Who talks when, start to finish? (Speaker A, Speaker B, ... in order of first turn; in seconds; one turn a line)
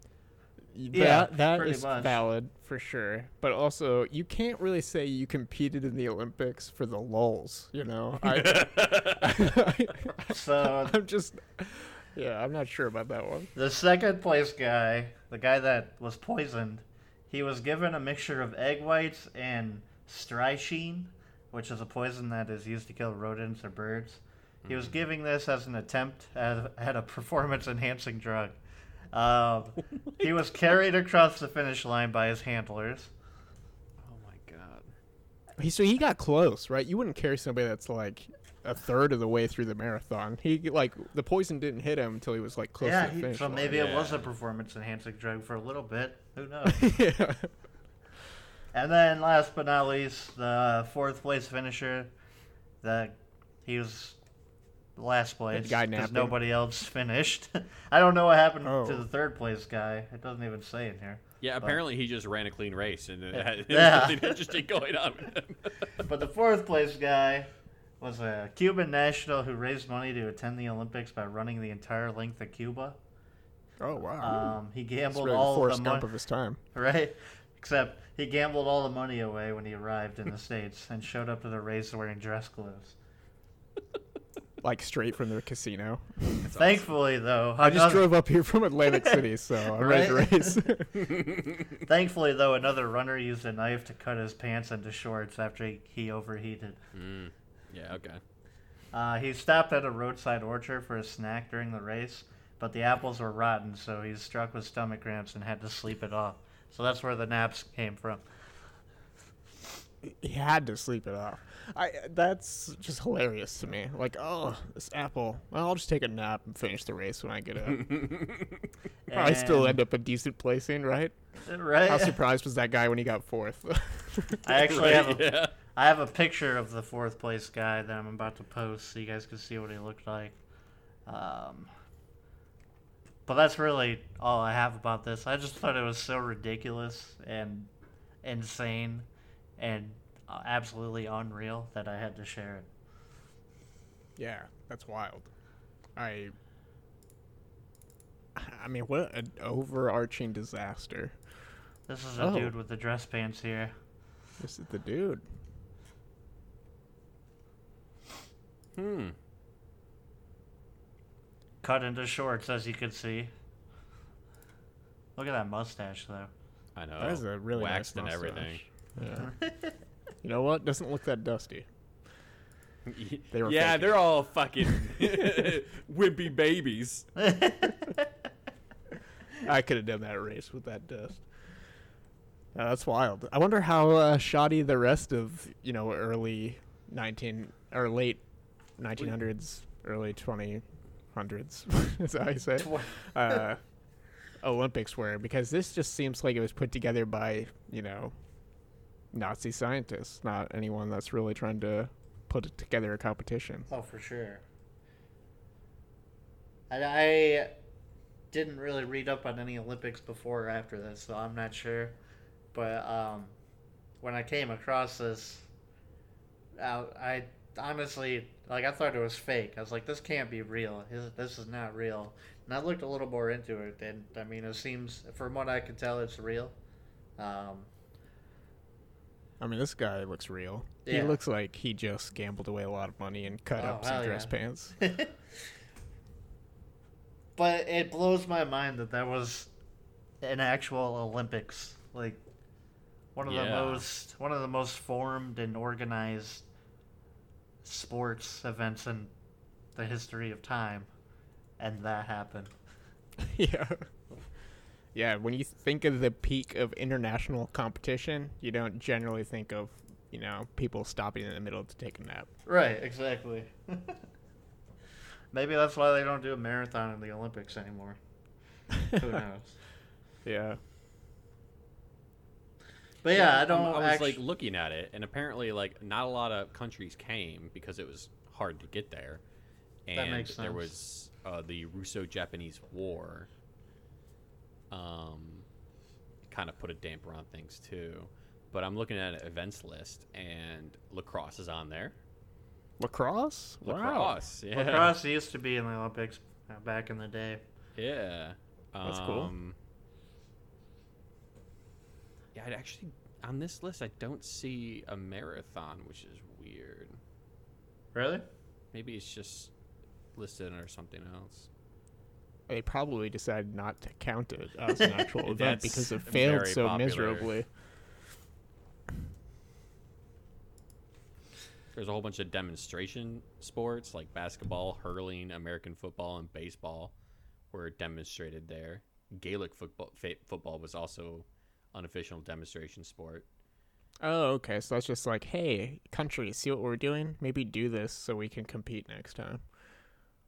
Speaker A: 0.7-13.5
Speaker B: 0.9-2.2
Speaker C: 8.2-9.6
Speaker B: 10.3-11.0
Speaker B: 13.6-28.6
Speaker C: 24.6-25.0
Speaker B: 29.1-33.1
Speaker C: 34.0-34.9
Speaker A: 35.6-43.8
Speaker B: 42.8-46.9
Speaker C: 43.7-44.3
Speaker A: 46.7-47.5
Speaker B: 48.7-52.1
Speaker B: 52.8-54.2
Speaker B: 55.0-61.8
Speaker A: 55.5-56.4
Speaker A: 58.6-59.1
Speaker C: 61.4-66.0
Speaker B: 63.3-64.5
Speaker B: 66.0-67.5
Speaker B: 68.0-73.0
Speaker A: 73.8-74.6
Speaker B: 74.2-76.1
Speaker A: 75.1-76.6
Speaker B: 76.7-83.0
Speaker A: 84.6-86.5
Speaker C: 86.4-86.9
Speaker B: 86.6-88.2
Speaker A: 87.6-91.2
Speaker B: 88.9-90.8
Speaker C: 91.1-91.7
Speaker B: 91.8-96.8
Speaker C: 96.9-98.2
Speaker B: 98.9-108.2
Speaker A: 110.0-118.1
Speaker C: 117.7-118.7
Speaker B: 119.1-119.8
Speaker A: 119.1-121.2
Speaker B: 121.5-122.2
Speaker A: 121.9-124.6
Speaker B: 124.4-130.4
Speaker C: 124.6-125.5
Speaker B: 131.1-131.7
Speaker B: 133.3-137.7
Speaker B: 138.2-142.7
Speaker A: 144.2-145.3
Speaker A: 146.0-146.3
Speaker A: 148.3-151.2
Speaker B: 151.9-153.7
Speaker A: 152.2-152.5
Speaker A: 154.4-155.2
Speaker C: 158.8-159.2
Speaker B: 161.6-163.3
Speaker B: 165.2-166.3
Speaker C: 166.8-168.6
Speaker A: 167.0-169.3
Speaker B: 169.2-169.8
Speaker A: 170.2-171.7
Speaker C: 172.9-177.1
Speaker A: 173.3-174.1
Speaker A: 174.6-175.5
Speaker B: 177.2-178.1
Speaker A: 179.4-181.2
Speaker A: 182.6-188.2
Speaker A: 188.8-193.6
Speaker B: 192.6-193.4
Speaker A: 194.4-198.1
Speaker A: 199.1-203.7
Speaker B: 203.7-204.4
Speaker B: 206.7-207.5
Speaker B: 208.3-212.0
Speaker B: 212.5-213.4
Speaker B: 214.0-215.5
Speaker B: 216.6-226.6
Speaker B: 227.2-227.7
Speaker A: 229.4-234.8
Speaker B: 230.9-231.2
Speaker B: 233.6-235.2
Speaker B: 237.4-239.5
Speaker B: 240.2-242.2
Speaker B: 243.2-246.5
Speaker C: 243.2-243.8
Speaker B: 247.6-249.1
Speaker B: 249.8-250.9
Speaker B: 251.6-252.5
Speaker A: 253.2-253.9
Speaker A: 254.9-262.3
Speaker B: 262.5-264.0
Speaker B: 265.3-268.0
Speaker B: 268.9-269.6
Speaker A: 270.2-270.6
Speaker B: 273.0-274.2
Speaker C: 273.1-279.2
Speaker C: 279.9-283.3
Speaker B: 279.9-280.7
Speaker C: 284.7-285.5
Speaker C: 286.3-291.9
Speaker A: 292.8-294.2
Speaker C: 293.6-295.0
Speaker B: 294.5-297.4
Speaker C: 297.8-299.6
Speaker A: 298.8-299.3
Speaker C: 302.3-307.0
Speaker B: 307.9-308.2
Speaker C: 308.7-309.5
Speaker C: 310.2-311.5
Speaker A: 312.5-317.5
Speaker C: 315.2-317.3
Speaker C: 321.8-326.9
Speaker C: 327.5-333.2
Speaker A: 334.0-339.4